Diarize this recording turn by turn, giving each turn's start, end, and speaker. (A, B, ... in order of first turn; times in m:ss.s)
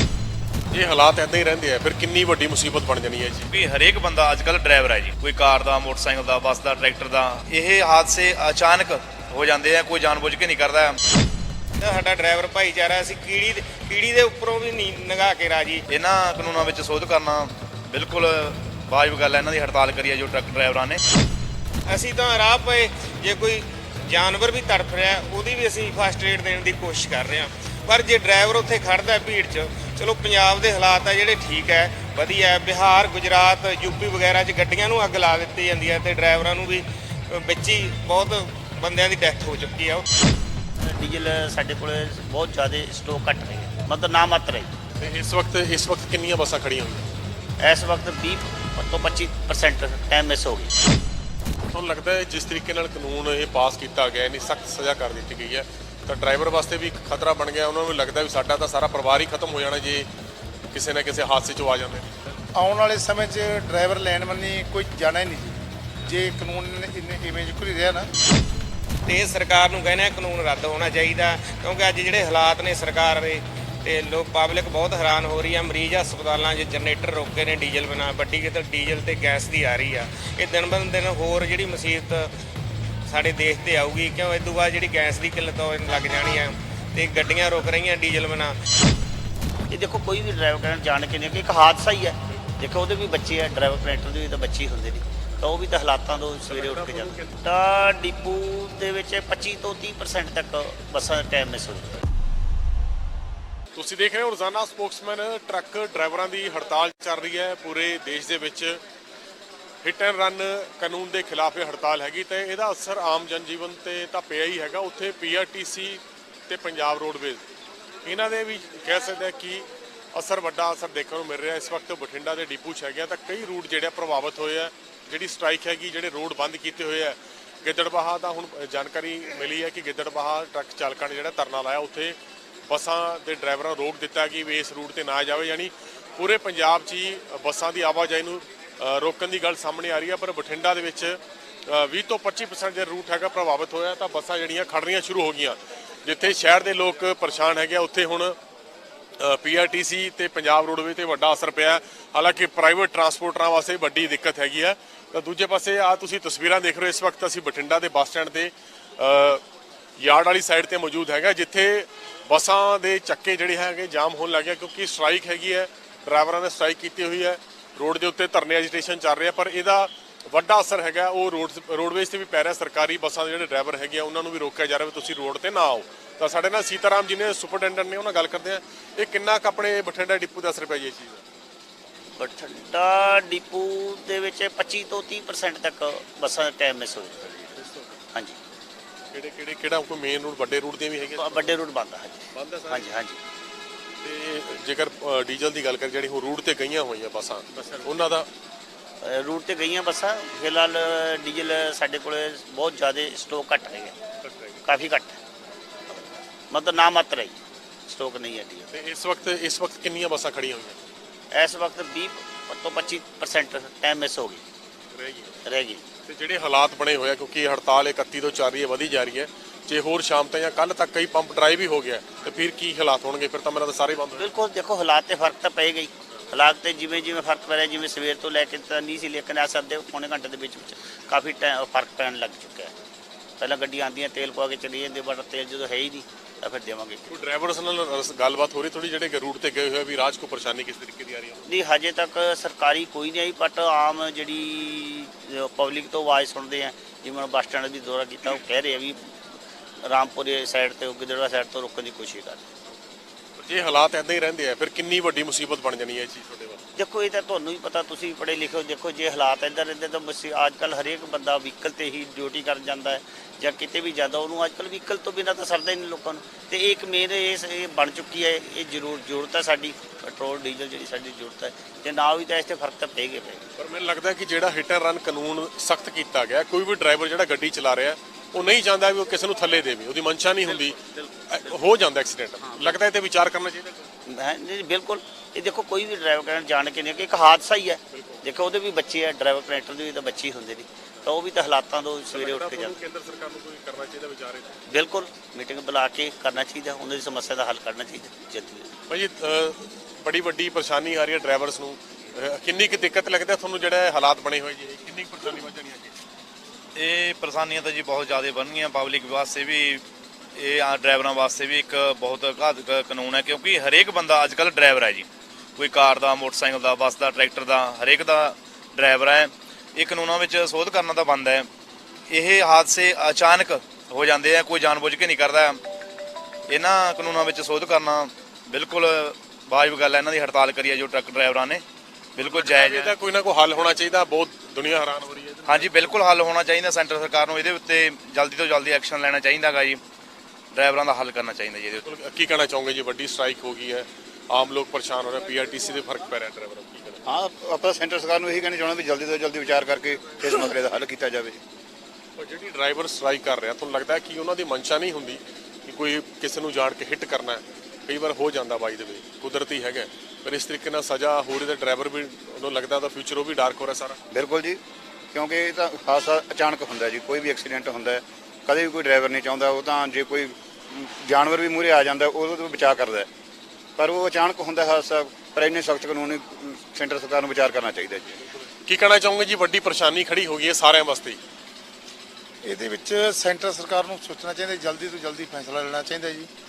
0:00.7-0:03.5 A
0:03.5-0:11.0 B
0:11.8-0:15.9 C
0:15.9-0:21.0 B
0:21.9-0:40.0 C
0:40.8-0:44.7 D
0:45.0-0:47.1 A
0:47.6-0:50.7 D
0:51.7-1:00.1 A
1:00.7-1:02.3 A
1:02.6-1:08.1 E
1:09.0-1:22.3 C
1:23.1-1:28.6 C
1:29.7-1:42.0 D
1:36.5-1:37.3 A
1:43.7-1:48.8 A
1:49.8-1:57.4 A
1:58.0-2:12.2 A
2:12.7-2:28.4 A
2:29.2-2:39.4 A
2:40.0-3:01.2 A
3:02.1-3:07.5 D
3:07.5-3:07.9 A
3:08.1-3:08.4 D
3:09.1-3:11.6 A
3:11.1-3:13.2 D
3:12.3-3:13.0 A
3:14.0-3:18.3 A
3:19.0-3:24.0 D
3:24.2-3:24.6 A
3:24.6-3:25.2 D
3:26.5-3:28.7 D
3:28.7-3:30.8 A
3:31.3-3:34.4 D
3:34.9-3:35.4 A
3:35.4-3:35.8 D
3:36.1-3:44.3 A
3:44.2-3:52.7 D
3:53.4-3:57.1 D
3:57.1-4:01.4 A
4:01.5-4:09.2 D
4:09.8-4:12.5 D
4:13.4-4:16.6 A
4:16.8-4:33.4 D
4:33.6-4:43.9 A
4:44.1-4:52.8 D
4:47.9-4:48.2 A
4:52.1-4:54.6 A
4:54.7-4:58.7 D
4:58.9-5:06.0 A
5:06.8-5:09.8 B
5:10.3-5:21.5 B
5:22.1-5:25.6 B
5:26.5-5:31.6 B
5:32.2-5:32.9 B
5:32.2-5:35.7 A
5:35.5-5:39.8 B
5:40.5-5:41.8 B
5:41.8-5:47.0 A
5:47.1-5:51.4 F
5:52.2-6:04.0 A
6:04.1-6:04.6 F
6:05.1-6:13.1 F
6:13.8-6:18.2 F
6:18.6-6:21.2 A
6:22.4-6:26.3 E